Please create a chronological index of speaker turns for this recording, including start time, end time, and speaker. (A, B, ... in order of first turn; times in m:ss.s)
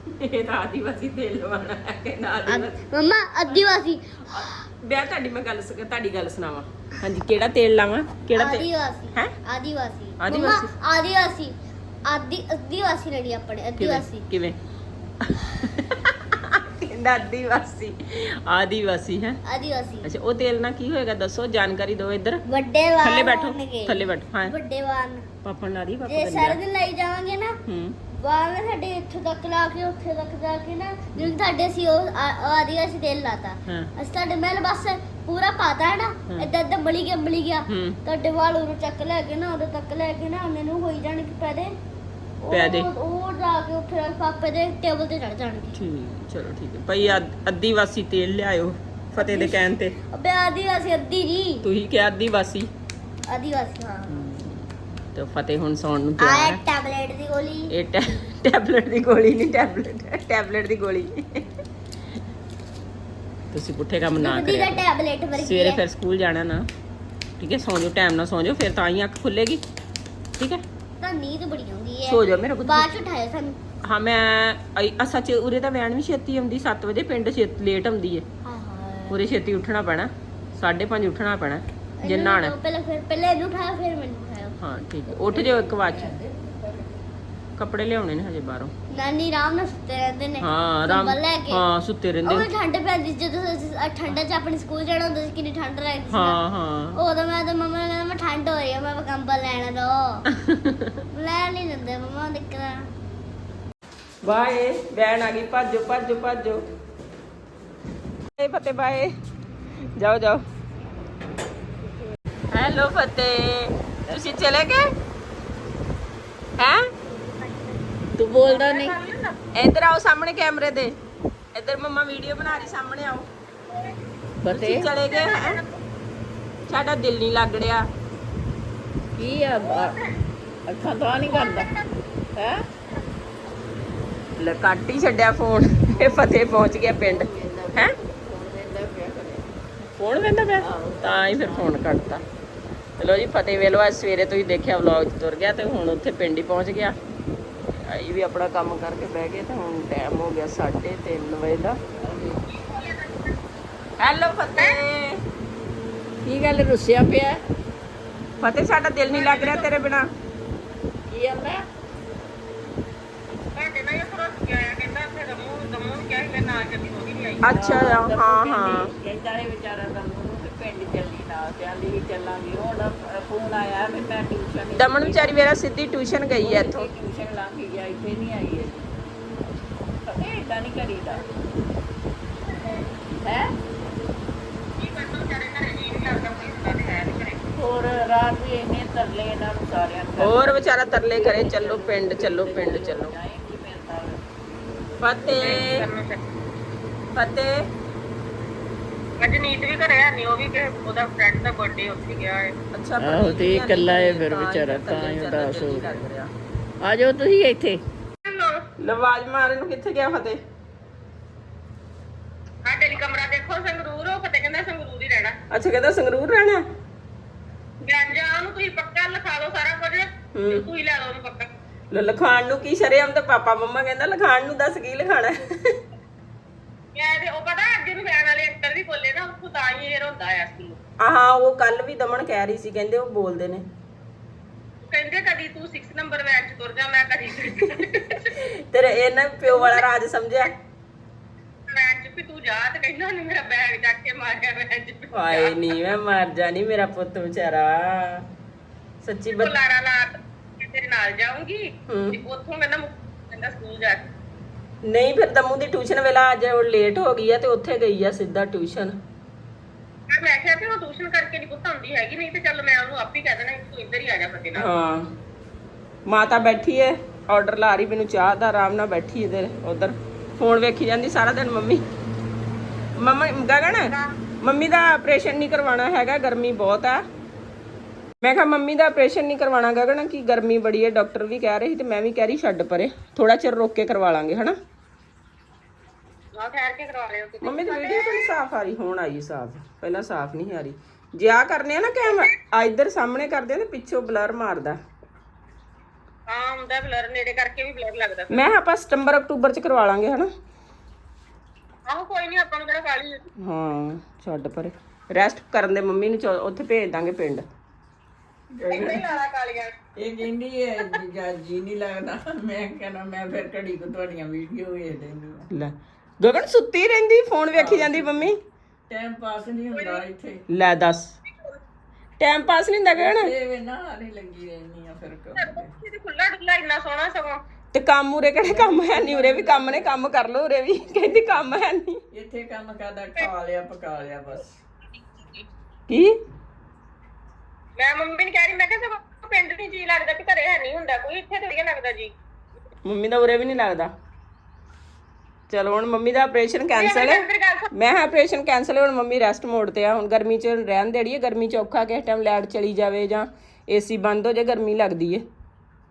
0:00.1-0:02.8 A
0:02.4-0:04.5 B
0:04.2-0:09.3 A
0:08.3-0:11.5 B
0:10.2-0:10.7 A
0:12.1-0:14.2 B
0:13.8-0:14.6 A
0:15.2-0:19.4 A
0:19.4-0:20.1 B
0:20.0-0:22.4 A
0:22.4-0:25.2 B
0:23.0-0:24.5 A
0:25.4-0:26.6 A
0:26.1-0:27.6 B
0:27.6-0:28.0 A
0:28.1-0:41.7 B
0:37.7-0:38.0 A
0:42.4-0:45.8 B
0:42.5-0:42.9 A
0:45.8-0:50.0 A
0:49.2-0:49.6 B
0:50.1-0:51.6 B
0:51.6-0:52.7 A
0:53.3-0:54.3 B
0:54.1-0:56.6 A
0:56.2-0:57.7 B
0:57.7-1:01.2 A
1:03.5-1:04.8 A
1:04.1-1:05.8 B
1:05.3-1:06.7 A
1:07.4-1:09.6 A
1:11.0-1:13.6 B
1:12.1-1:13.0 A
1:13.8-1:18.2 A
1:18.4-1:19.2 B
1:19.1-1:22.5 A
1:22.0-1:24.6 B
1:24.6-1:26.1 A
1:25.2-1:27.0 C
1:27.6-1:28.7 A
1:28.9-1:31.6 B
1:30.4-1:32.5 A
1:32.2-1:36.4 B
1:36.1-1:37.0 A
1:36.9-1:40.2 B
1:40.4-1:40.9 A
1:41.1-1:42.8 B
1:44.2-1:46.6 A
1:48.4-1:49.1 A
1:50.0-1:50.4 A
1:52.5-1:54.8 A
1:56.6-1:56.8 A
1:58.2-1:59.0 C
1:58.3-1:59.4 D
1:59.5-2:01.0 A
2:01.5-2:03.3 A
2:04.4-2:04.9 C
2:04.5-2:05.6 A
2:05.0-2:05.8 D
2:06.7-2:07.9 A
2:09.2-2:10.0 C
2:09.6-2:10.1 D
2:10.6-2:11.7 C
2:11.2-2:11.9 D
2:12.3-2:12.6 C
2:14.4-2:17.9 A
2:15.9-2:19.5 C
2:20.0-2:22.2 A
2:20.6-2:21.9 C
2:23.0-2:27.0 A
2:27.8-2:31.8 A
2:32.0-2:32.4 C
2:32.5-2:33.4 D
2:34.0-2:35.2 A
2:36.2-2:37.4 C
2:38.4-2:40.1 A
2:39.1-2:39.8 D
2:41.1-2:41.6 C
2:43.5-2:47.5 D
2:47.4-2:48.9 A
2:47.5-2:55.4 C
2:54.7-2:56.9 A
2:56.4-2:59.0 C
3:00.0-3:01.2 C
3:03.1-3:03.5 C
3:04.8-3:07.4 D
3:07.6-3:14.3 C
3:10.2-3:13.1 A
3:15.0-3:15.9 A
3:15.3-3:16.2 D
3:17.1-3:17.6 A
3:19.2-3:22.5 D
3:22.7-3:26.3 A
3:23.0-3:26.0 C
3:26.8-3:27.8 C
3:28.2-3:28.6 D
3:28.8-3:30.4 A
3:32.6-3:35.4 D
3:35.5-3:36.6 A
3:37.8-3:41.5 D
3:40.3-3:40.6 A
3:41.9-3:45.8 A
3:46.9-3:50.8 D
3:51.0-3:53.6 A
3:54.8-3:58.4 D
3:57.6-4:00.5 A
3:59.5-3:59.8 D
4:01.7-4:05.8 D
4:05.1-4:08.3 A
4:09.0-4:09.5 A
4:09.3-4:14.1 D
4:11.9-4:12.2 A
4:14.8-4:19.0 A
4:20.1-4:24.7 D
4:24.6-4:25.1 A
4:26.1-4:31.8 A
4:33.0-4:37.0 A
4:38.2-4:44.6 A
4:46.4-4:48.3 D
4:47.4-4:54.8 A
4:56.3-4:58.4 D
4:58.3-5:00.3 A
5:01.9-5:03.2 D
5:03.4-5:07.4 A
5:08.5-5:09.0 C
5:08.7-5:09.8 D
5:10.0-5:15.4 C
5:15.5-5:18.4 A
5:17.5-5:18.3 C
5:18.9-5:20.4 C
5:19.7-5:20.0 D
5:20.5-5:21.1 A
5:22.2-5:23.3 A
5:22.9-5:25.7 C
5:25.4-5:27.4 D
5:27.7-5:32.0 A
5:28.4-5:30.0 C
5:30.8-5:31.5 C
5:32.1-5:34.6 C
5:35.1-5:35.4 D
5:35.9-5:36.2 A
5:37.8-5:42.1 D
5:42.8-5:43.9 A
5:45.5-5:55.2 A
5:46.7-5:47.7 D